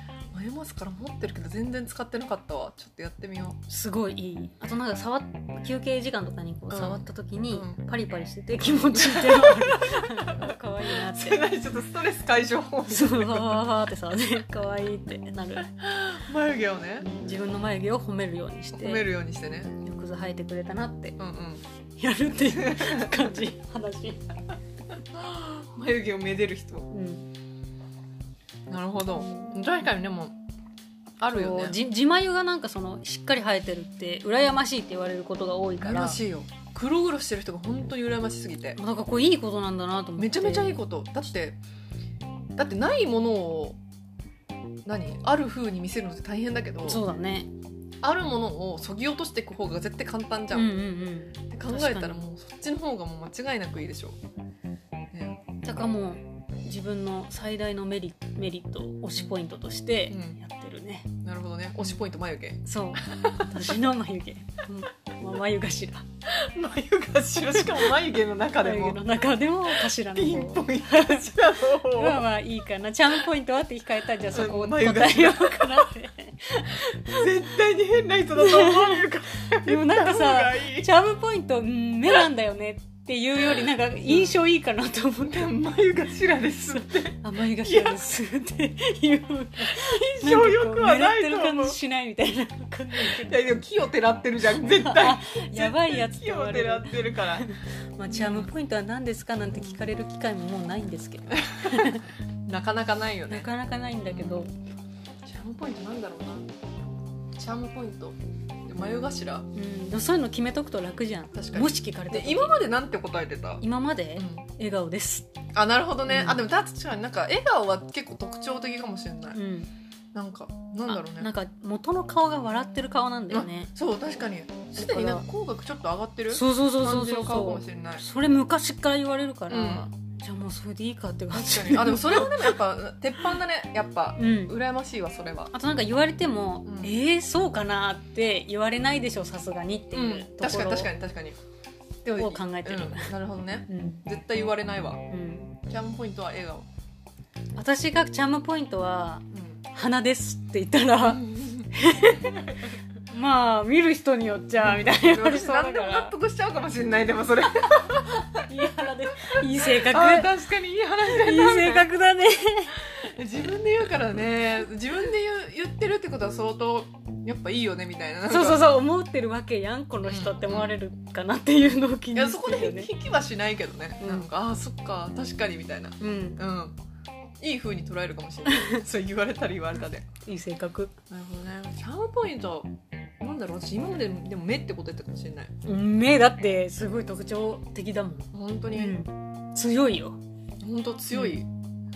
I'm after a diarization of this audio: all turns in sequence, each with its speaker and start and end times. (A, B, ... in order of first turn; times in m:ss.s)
0:00.3-0:03.6 A
0:03.7-0:11.4 B
0:06.7-0:07.8 A
0:08.9-0:13.7 A
0:12.9-0:15.7 B
0:15.8-0:17.1 A
0:17.0-0:19.0 B
0:18.7-0:19.8 A
0:19.8-0:21.2 B
0:21.2-0:21.6 A
0:22.0-0:24.3 B
0:22.5-0:23.2 A
0:25.1-0:26.9 A
0:26.9-0:27.3 B
0:28.7-0:30.4 A
0:29.2-0:29.6 B
0:31.2-0:31.8 A
0:31.3-0:36.2 B
0:35.8-0:38.8 A
0:38.8-0:40.8 B
0:40.2-0:41.6 A
0:42.6-0:43.8 A
0:44.8-0:47.0 A
0:46.8-0:47.5 B
0:48.0-0:50.7 A
0:50.5-0:52.2 B
0:51.5-0:54.2 A
0:55.1-0:55.4 A
0:55.6-1:01.1 B
1:00.1-1:00.4 A
1:01.2-1:03.7 A
1:02.6-1:06.0 B
1:06.3-1:09.0 A
1:08.6-1:17.3 B
1:09.7-1:12.2 A
1:14.3-1:15.9 A
1:17.0-1:20.9 A
1:18.4-1:25.5 B
1:24.0-1:24.4 A
1:25.2-1:28.0 A
1:26.7-1:33.6 B
1:29.6-1:31.8 A
1:33.0-1:37.5 A
1:34.5-1:42.0 B
1:38.1-1:38.5 A
1:41.5-1:43.5 A
1:43.3-1:44.5 B
1:44.1-1:44.5 A
1:45.2-1:46.5 A
1:47.3-1:49.5 A
1:49.5-1:52.7 B
1:51.3-1:53.6 A
1:53.6-1:55.3 B
1:54.2-1:54.4 A
1:55.5-1:59.4 A
1:56.1-1:56.4 B
1:59.3-1:59.7 B
2:00.1-2:01.3 A
2:00.9-2:03.7 B
2:03.3-2:08.0 A
2:04.7-2:05.2 B
2:06.3-2:12.6 B
2:09.5-2:09.9 A
2:11.3-2:15.5 A
2:14.2-2:14.6 B
2:15.5-2:20.9 B
2:16.6-2:16.9 A
2:19.9-2:21.4 A
2:22.0-2:25.0 A
2:22.2-2:23.1 B
2:23.7-2:24.0 B
2:25.1-2:25.6 B
2:25.7-2:26.7 A
2:27.6-2:32.6 B
2:29.3-2:29.6 A
2:31.0-2:31.7 A
2:32.2-2:32.7 A
2:33.1-2:36.1 B
2:34.6-2:38.4 A
2:38.2-2:40.3 B
2:39.3-2:41.9 A
2:41.0-2:42.9 B
2:43.0-2:48.7 A
2:48.3-2:52.9 B
2:50.0-2:50.7 A
2:52.1-2:56.8 A
2:54.0-2:54.3 B
2:56.0-2:56.4 B
2:57.4-3:00.0 A
2:58.5-2:58.8 B
3:00.2-3:00.9 B
3:01.1-3:05.5 A
3:05.6-3:10.2 B
3:08.3-3:09.0 A
3:10.6-3:11.5 A
3:11.1-3:11.4 B